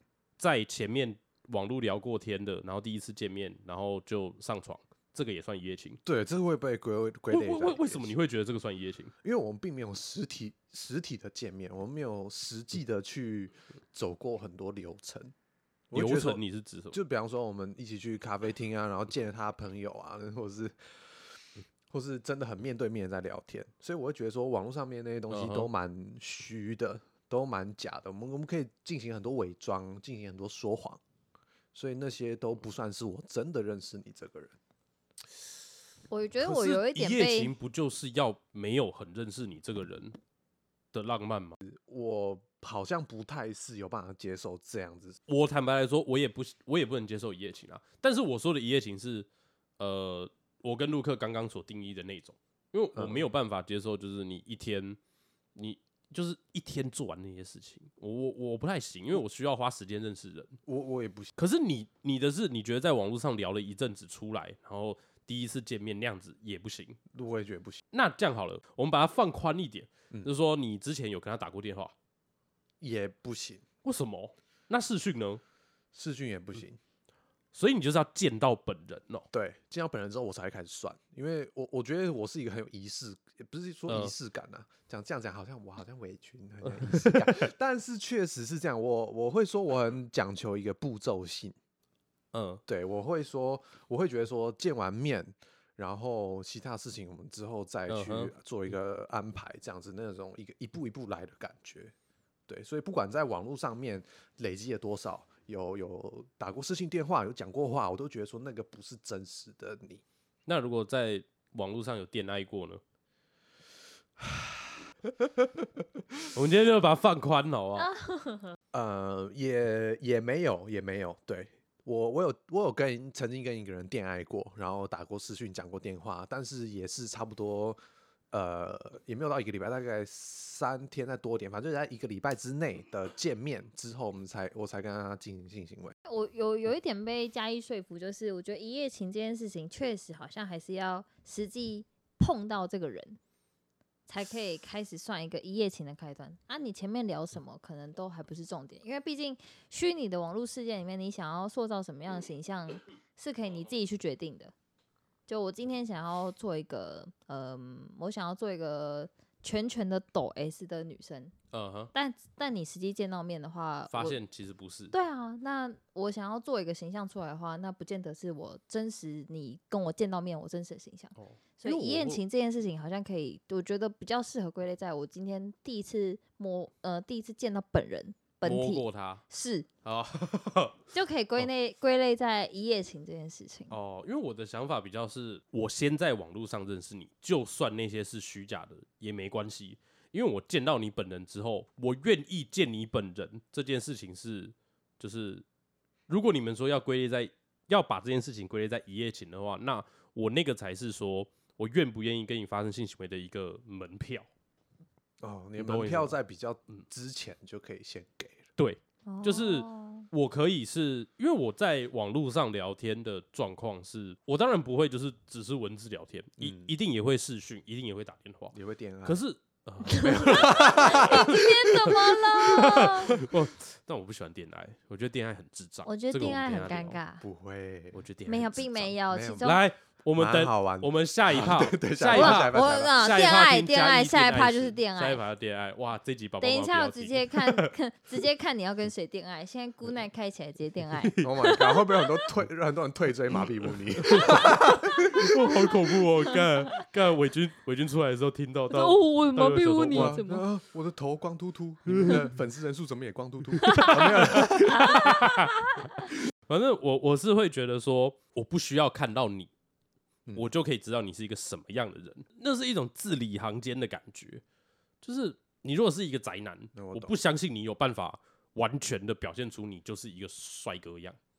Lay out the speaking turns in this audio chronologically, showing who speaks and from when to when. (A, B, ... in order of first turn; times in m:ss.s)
0:00.4-0:06.0 A
0:06.0-0:08.1 B
0:07.3-0:09.1 A
0:09.2-0:15.3 B
0:15.9-0:16.4 B
0:15.9-0:17.0 A
0:16.9-0:21.4 B
0:21.9-0:31.0 B
0:25.3-0:25.7 A
0:31.7-0:34.6 B
0:36.1-0:37.5 C
0:36.4-0:40.2 A
0:40.9-0:41.6 A
0:41.6-0:45.2 B
0:45.3-0:49.3 A
0:49.8-0:55.0 A
0:52.9-0:53.3 B
0:55.5-1:00.6 A
1:00.6-1:01.3 B
1:01.4-1:07.0 A
1:07.1-1:07.8 B
1:07.9-1:11.9 A
1:12.8-1:13.6 B
1:13.8-1:15.4 A
1:15.9-1:16.8 B
1:17.5-1:19.3 A
1:19.3-1:31.6 B
1:23.9-1:24.1 A
1:26.6-1:27.5 A
1:32.3-1:32.6 A
1:32.7-1:41.9 B
1:37.9-1:38.3 A
1:42.5-1:50.0 B
1:50.5-1:52.8 A
1:54.2-1:54.7 B
1:55.2-1:55.8 B
1:56.3-1:57.9 A
1:57.8-1:58.5 C
1:58.7-2:07.8 B
2:08.3-2:15.9 B
2:16.0-2:23.2 C
2:24.1-2:34.5 C
2:35.3-2:41.3 C
2:41.5-2:41.9 A
2:41.9-2:44.2 C
2:43.9-2:44.9 A
2:44.9-2:59.7 C
2:51.2-2:52.2 A
2:58.4-2:59.2 A
2:59.8-3:00.8 A
3:00.9-3:03.7 C
3:03.7-3:15.4 A
3:16.1-3:24.3 A
3:25.2-3:28.4 B
3:25.6-3:26.2 A
3:28.6-3:47.0 A
3:29.0-3:30.1 C
3:36.4-3:36.7 B
3:38.5-3:39.2 B
3:39.9-3:43.2 C
3:40.0-3:41.9 B
3:42.5-3:43.3 B
3:45.8-3:47.2 C
3:47.2-3:48.0 B
3:47.9-3:57.7 A
3:48.2-3:49.6 C
3:49.1-3:49.6 B
3:50.2-3:53.0 B
3:52.1-3:55.2 C
3:56.4-4:02.0 C
4:00.9-4:01.4 A
4:01.2-4:05.4 B
4:03.7-4:10.2 A
4:08.8-4:10.2 C
4:09.9-4:15.3 B
4:11.9-4:12.3 A
4:13.6-4:15.9 A
4:15.0-4:15.9 C
4:16.5-4:19.5 A
4:20.3-4:24.4 A
4:25.0-4:31.2 A
4:26.7-4:27.1 B